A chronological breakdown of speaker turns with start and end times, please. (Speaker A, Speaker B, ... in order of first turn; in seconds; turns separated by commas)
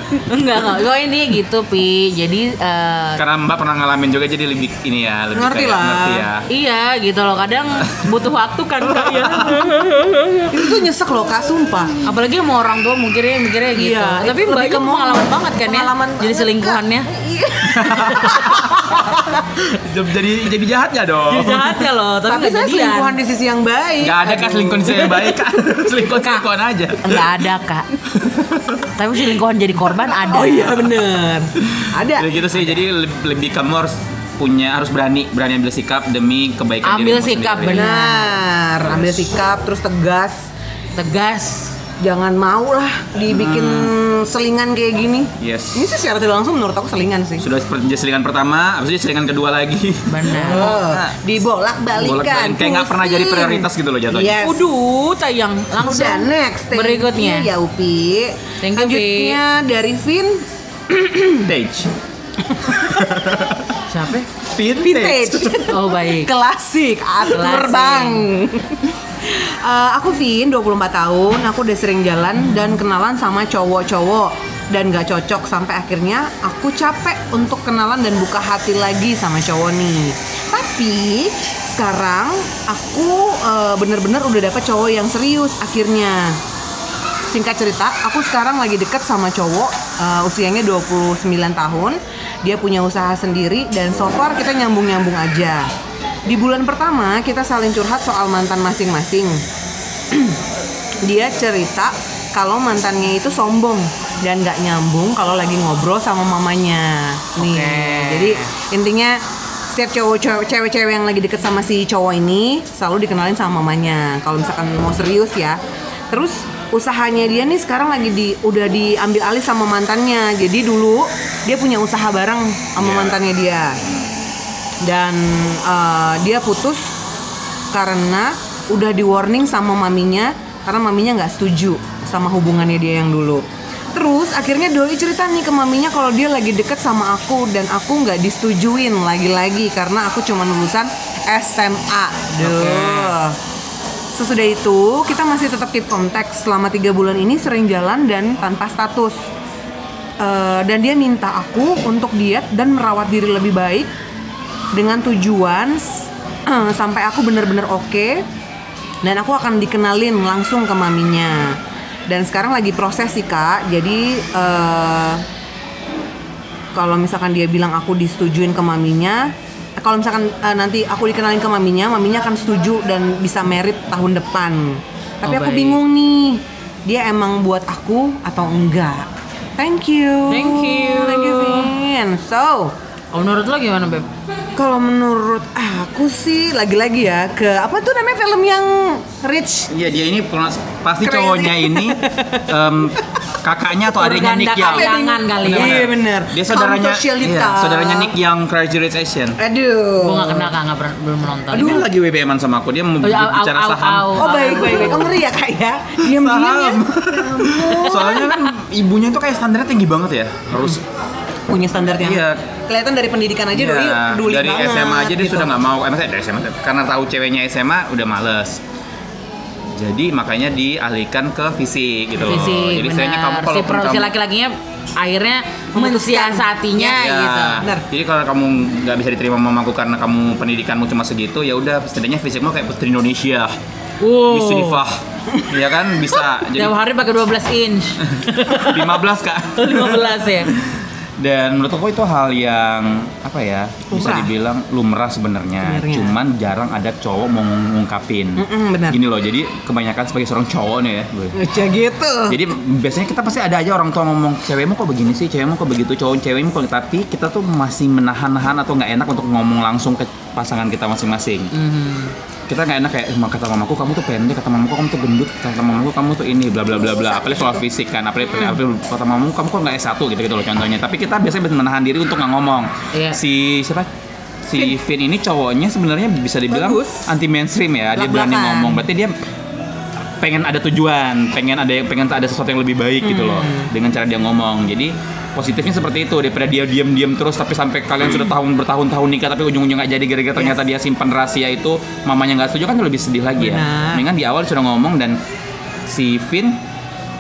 Speaker A: 0.1-3.2, Speaker B: 3.2-6.4, Speaker C: 5.3-6.3, Speaker A: 6.5-10.5, Speaker B: 9.0-9.7, Speaker C: 10.5-12.0, Speaker A: 12.0-17.1, Speaker C: 13.7-19.4, Speaker B: 17.7-21.8, Speaker A: 21.3-23.2, Speaker C: 22.2-25.4, Speaker B: 24.0-27.3, Speaker A: 26.2-26.4, Speaker A: 27.0-27.9, Speaker B: 28.1-28.9, Speaker A: 28.9-30.8, Speaker C: 30.3-32.6, Speaker B: 31.6-37.9, Speaker A: 36.8-38.4, Speaker C: 37.7-40.5, Speaker B: 38.9-39.2, Speaker A: 41.0-41.8, Speaker C: 42.0-47.4, Speaker B: 43.4-43.9, Speaker B: 45.4-45.9, Speaker B: 47.4-51.2, Speaker A: 50.0-50.7, Speaker C: 50.3-54.6, Speaker B: 51.9-54.4, Speaker A: 54.4-57.5, Speaker C: 55.8-61.2, Speaker A: 58.6-59.4, Speaker B: 61.2-61.9, Speaker B: 62.7-63.7, Speaker A: 63.9-64.3, Speaker B: 64.5-65.7, Speaker C: 64.8-86.4, Speaker A: 65.7-66.3, Speaker A: 67.3-68.3, Speaker C: 87.3-95.7, Speaker C: 96.3-99.4, Speaker C: 100.1-100.4, Speaker C: 101.0-123.8, Speaker A: 107.4-108.5, Speaker B: 122.8-123.2, Speaker C: 124.8-126.9, Speaker C: 127.7-143.4, Speaker A: 142.4-143.2, Speaker C: 144.1-149.2, Speaker C: 150.2-153.9, Speaker C: 154.7-158.2, Speaker C: 159.0-161.6, Speaker C: 162.1-165.2, Speaker C: 166.7-182.7, Speaker A: 175.2-175.8, Speaker A: 180.3-181.7, Speaker A: 183.1-184.1, Speaker C: 184.6-189.7, Speaker B: 189.7-199.4, Speaker C: 191.0-192.5, Speaker A: 193.9-195.9, Speaker C: 194.6-198.1, Speaker C: 199.4-200.5, Speaker A: 200.0-201.8, Speaker B: 201.5-204.4, Speaker A: 203.0-205.2, Speaker C: 204.2-208.3, Speaker B: 206.0-210.8, Speaker A: 207.9-208.3, Speaker C: 211.5-215.6, Speaker B: 212.0-212.4, Speaker B: 213.5-218.6, Speaker B: 219.8-224.1, Speaker A: 222.2-227.7, Speaker C: 225.7-226.8, Speaker B: 226.8-233.5, Speaker C: 227.6-227.8, Speaker A: 234.0-234.8, Speaker B: 234.2-236.7, Speaker A: 236.5-239.0, Speaker B: 238.1-251.4, Speaker A: 239.6-240.5, Speaker C: 243.9-244.3, Speaker C: 245.6-246.2, Speaker C: 248.4-249.0, Speaker C: 251.3-252.4, Speaker B: 252.3-261.5, Speaker A: 261.5-262.1, Speaker B: 262.5-273.9, Speaker C: 266.9-267.6, Speaker A: 272.9-273.2, Speaker B: 274.4-279.1, Speaker C: 276.5-277.0, Speaker C: 277.9-278.8, Speaker B: 280.2-295.2, Speaker C: 283.0-283.7, Speaker C: 293.4-294.0, Speaker B: 295.9-296.6